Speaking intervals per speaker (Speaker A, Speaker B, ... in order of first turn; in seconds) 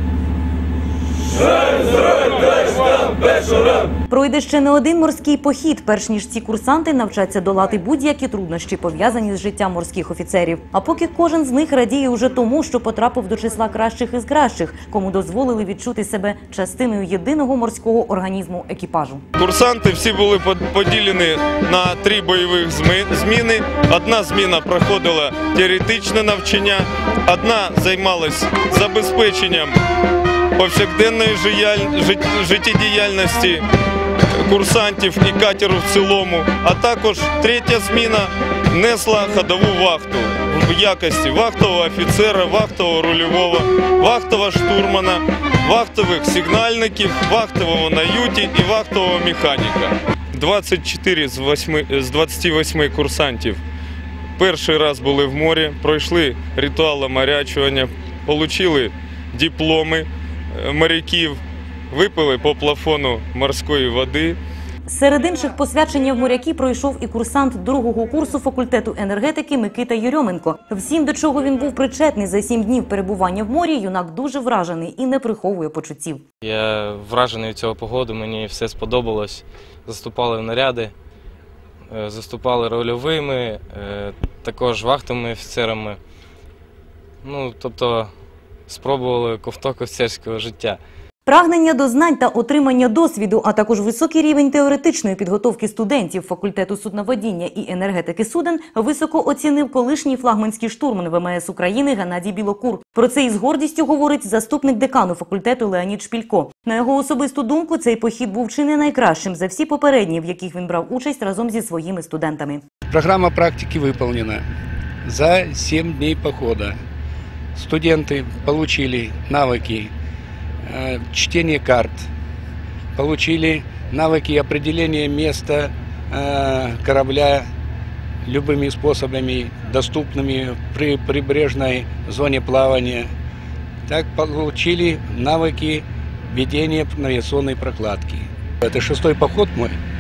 Speaker A: 4.1-19.2, 64.9-76.2, 91.2-112.6
Speaker B: 19.4-29.8, 30.6-33.6, 34.4-53.6, 54.4-61.4, 61.9-64.4
Speaker C: 76.4-80.9, 81.9-86.0, 87.2-88.1, 88.7-90.8
Speaker D: 112.9-114.4, 115.0-116.8, 117.5-119.9, 120.7-122.1, 123.0-127.5, 128.2-133.1, 133.9-139.8